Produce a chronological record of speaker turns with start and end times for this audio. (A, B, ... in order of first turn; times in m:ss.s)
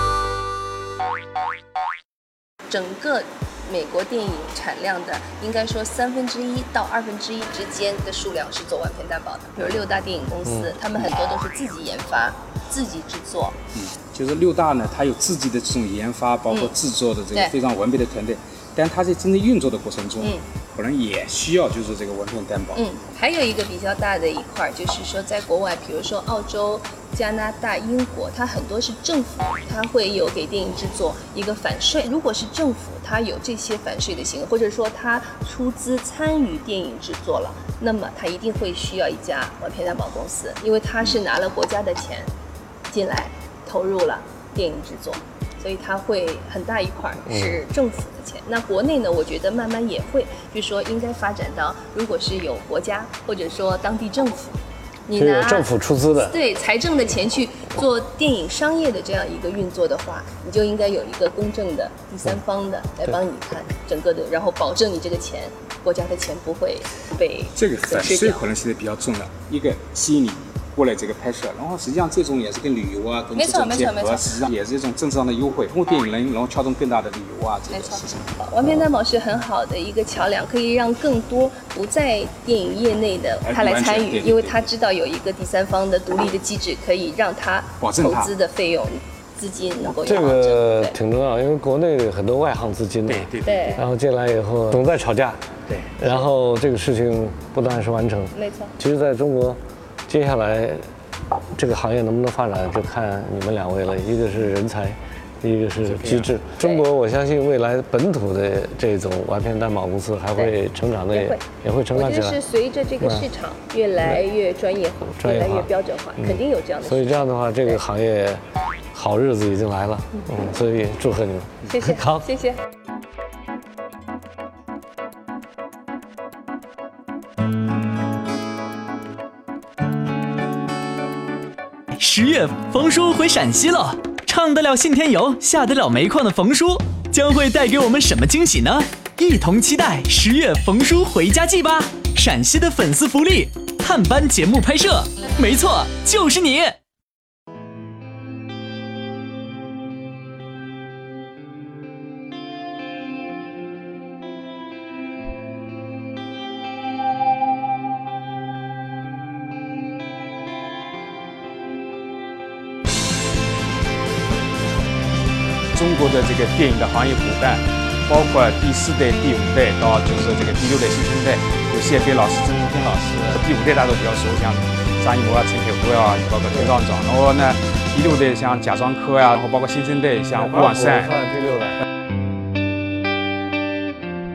0:02.7-0:13.6 A
0:10.5-0:10.7 B
0:13.7-0:22.8 C
0:22.8-0:42.3 A
0:42.9-0:55.7 A
0:47.3-0:47.6 B
0:55.1-0:56.4 B
0:56.2-1:08.4 A
1:07.6-1:18.3 C
1:13.4-1:14.3 A
1:17.7-1:30.9 A
1:23.4-1:24.7 C
1:27.8-1:28.3 C
1:30.0-1:35.4 B
1:33.1-1:33.7 C
1:33.4-1:33.8 A
1:36.0-1:40.9 B
1:38.4-1:38.7 A
1:41.6-1:52.4 B
1:45.8-1:46.3 C
1:51.1-1:51.4 A
1:51.9-1:57.8 A
1:53.0-1:53.3 B
1:55.1-1:58.4 B
1:58.9-2:02.2 B
2:01.7-2:02.6 A
2:11.9-2:26.8 D
2:45.7-3:01.2 C
3:00.4-3:01.8 B